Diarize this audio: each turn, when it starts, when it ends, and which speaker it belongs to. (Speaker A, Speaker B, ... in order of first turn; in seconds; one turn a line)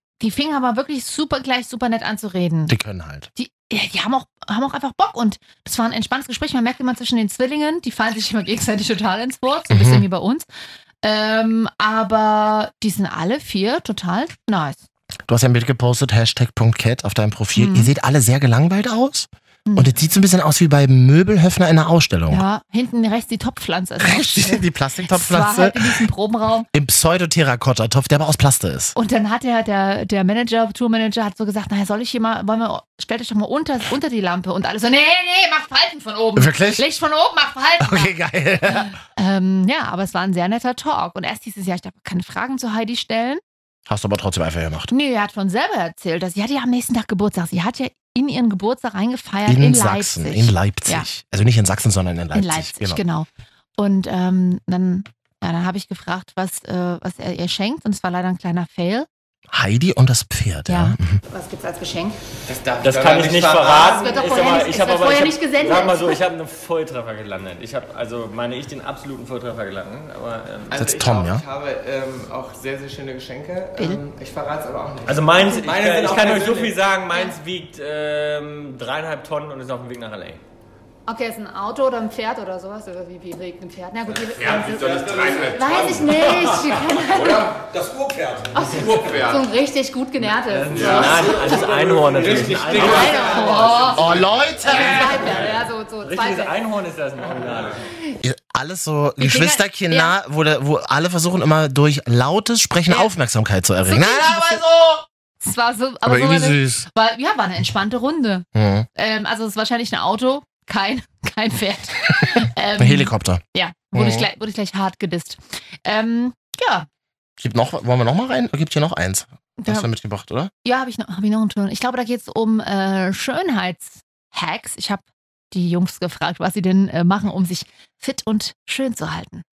Speaker A: 0.2-2.7
Speaker B: 2.7-3.3
Speaker A: 3.4-10.5
Speaker B: 9.7-10.1
Speaker A: 11.0-14.8
Speaker B: 15.3-22.4
Speaker A: 17.6-17.9
Speaker A: 19.7-19.9
Speaker A: 22.3-26.7
Speaker B: 24.0-26.0
Speaker B: 26.7-28.9
Speaker A: 28.9-38.1
Speaker B: 36.4-36.9
Speaker B: 37.8-39.0
Speaker A: 38.7-43.4
Speaker B: 43.9-44.9
Speaker A: 44.9-51.1
Speaker B: 49.5-53.0
Speaker A: 52.3-59.1
Speaker B: 59.5-61.2
Speaker A: 60.7-62.2
Speaker C: 62.5-64.5
Speaker D: 62.8-70.8
Speaker A: 64.0-66.2
Speaker C: 70.7-76.9
Speaker B: 70.8-71.4
Speaker D: 75.1-80.4
Speaker A: 77.1-77.4
Speaker A: 81.1-87.6
Speaker C: 84.3-86.6
Speaker D: 84.4-86.3
Speaker D: 87.7-88.0
Speaker A: 88.5-91.7
Speaker C: 88.5-89.5
Speaker D: 88.8-89.1
Speaker D: 90.5-97.8
Speaker C: 90.7-94.3
Speaker A: 92.8-96.6
Speaker B: 93.9-95.1
Speaker B: 98.2-105.0
Speaker A: 99.2-100.1
Speaker A: 103.9-104.6
Speaker A: 105.4-116.9
Speaker B: 106.0-106.9
Speaker B: 108.5-108.9
Speaker B: 112.8-114.3
Speaker B: 117.4-120.5
Speaker A: 119.6-119.9
Speaker A: 120.6-129.4